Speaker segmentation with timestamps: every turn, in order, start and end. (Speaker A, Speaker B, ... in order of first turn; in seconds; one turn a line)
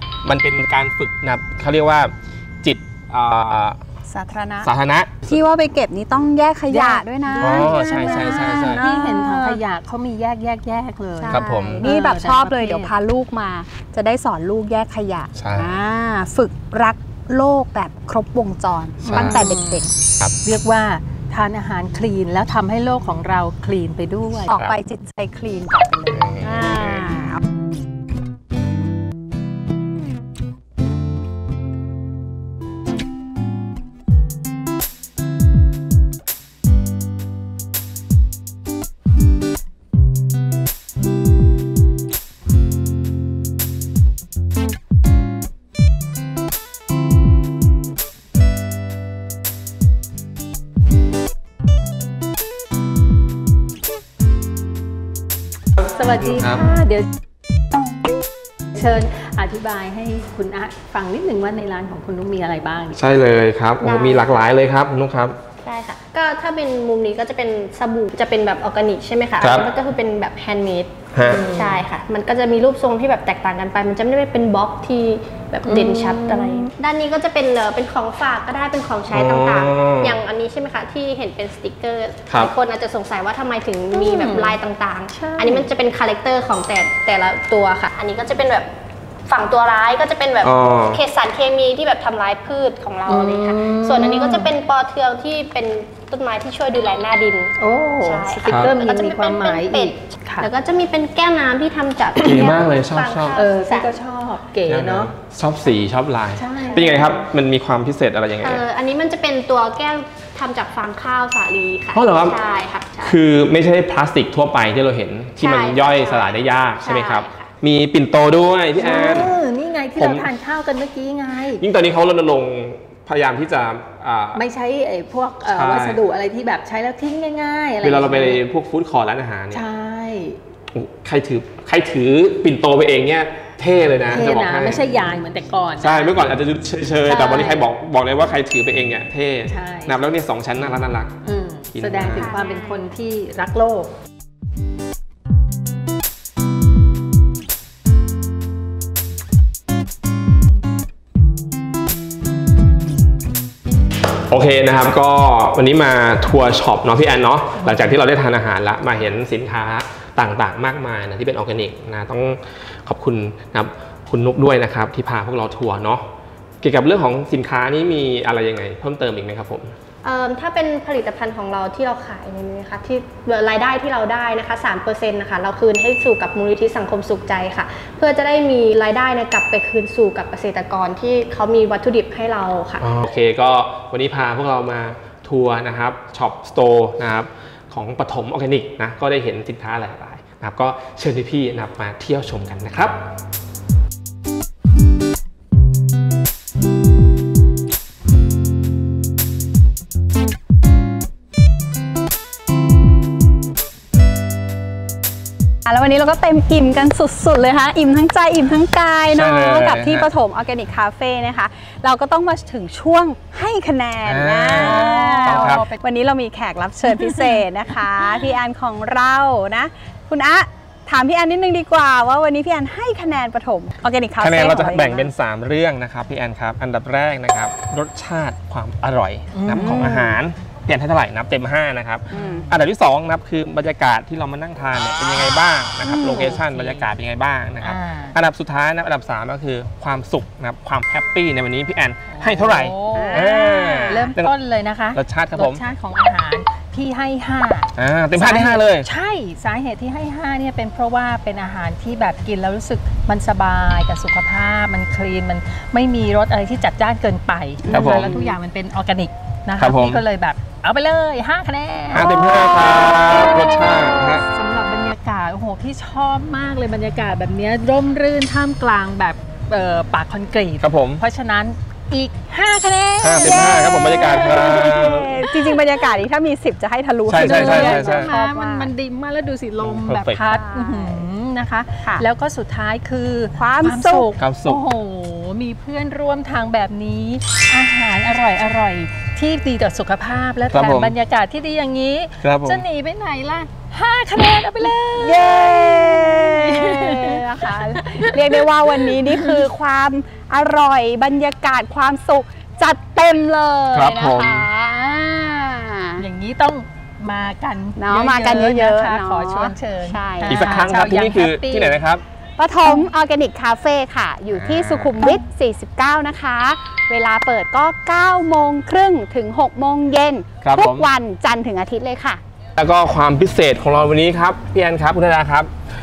Speaker A: 0.2-3.8
Speaker B: 4.1-4.7
Speaker A: 4.6-5.4
Speaker B: 5.2-9.6
Speaker C: 6.7-12.9
Speaker A: 7.4-8.8
Speaker B: 11.2-19.9
Speaker A: 11.3-11.9
Speaker A: 15.3-15.8
Speaker A: 19.0-19.5
Speaker C: 19.1-19.9
Speaker C: 20.4-24.5
Speaker B: 24.5-27.4
Speaker A: 24.5-24.8
Speaker A: 26.1-27.1
Speaker C: 55.9-57.1
Speaker A: 56.3-56.7
Speaker C: 58.7-63.0
Speaker A: 63.0-65.4
Speaker D: 63.8-64.5
Speaker D: 65.6-88.7
Speaker A: 69.4-69.7
Speaker A: 71.1-71.4
Speaker C: 71.3-71.7
Speaker C: 75.7-76.6
Speaker A: 79.1-80.2
Speaker A: 82.3-82.5
Speaker C: 83.9-84.6
Speaker C: 85.1-85.7
Speaker D: 89.3-103.9
Speaker A: 90.4-91.0
Speaker C: 93.1-94.5
Speaker C: 97.6-100.5
Speaker A: 98.5-98.8
Speaker C: 102.2-102.6
Speaker A: 102.2-103.4
Speaker C: 103.3-105.1
Speaker A: 104.7-108.6
Speaker C: 106.4-107.2
Speaker D: 108.4-113.2
Speaker A: 111.9-112.4
Speaker A: 113.0-119.3
Speaker D: 115.4-117.5
Speaker C: 118.8-121.6
Speaker A: 120.0-120.3
Speaker A: 121.6-124.4
Speaker C: 124.3-128.4
Speaker A: 125.5-126.0
Speaker A: 127.8-129.6
Speaker C: 129.5-130.4
Speaker A: 130.7-135.1
Speaker C: 134.1-136.4
Speaker A: 135.8-141.2
Speaker C: 137.1-137.7
Speaker C: 139.5-140.0
Speaker C: 141.2-143.9
Speaker A: 141.7-142.3
Speaker B: 142.0-142.8
Speaker A: 154.3-166.0
Speaker A: 166.6-169.7
Speaker D: 170.0-182.8
Speaker A: 182.8-193.0
Speaker B: 205.7-225.1
Speaker A: 209.1-210.1
Speaker A: 214.1-215.7
Speaker C: 214.5-215.8
Speaker C: 216.8-217.4
Speaker A: 224.2-244.3
Speaker C: 229.3-230.2
Speaker B: 229.6-230.0
Speaker B: 232.1-232.5
Speaker C: 232.1-232.5
Speaker B: 235.8-236.4
Speaker C: 236.1-236.9
Speaker C: 237.6-238.2
Speaker C: 242.1-275.9
Speaker B: 242.9-244.1
Speaker A: 244.9-245.6
Speaker A: 247.8-248.9
Speaker B: 257.6-258.4
Speaker A: 257.7-258.1
Speaker A: 259.6-260.0
Speaker A: 261.9-264.2
Speaker B: 262.0-263.2
Speaker A: 270.6-271.0
Speaker A: 273.0-275.2
Speaker B: 273.2-278.7
Speaker A: 277.1-278.1
Speaker C: 277.1-299.4
Speaker A: 279.6-280.2
Speaker B: 280.2-281.1
Speaker B: 283.4-284.1
Speaker A: 284.2-284.6
Speaker A: 290.5-291.0
Speaker A: 292.2-292.6
Speaker B: 294.6-306.1
Speaker A: 303.7-304.5
Speaker C: 306.0-311.8
Speaker B: 307.8-310.7
Speaker A: 310.2-312.0
Speaker B: 312.4-322.2
Speaker A: 314.3-314.9
Speaker A: 320.4-320.9
Speaker A: 322.6-325.5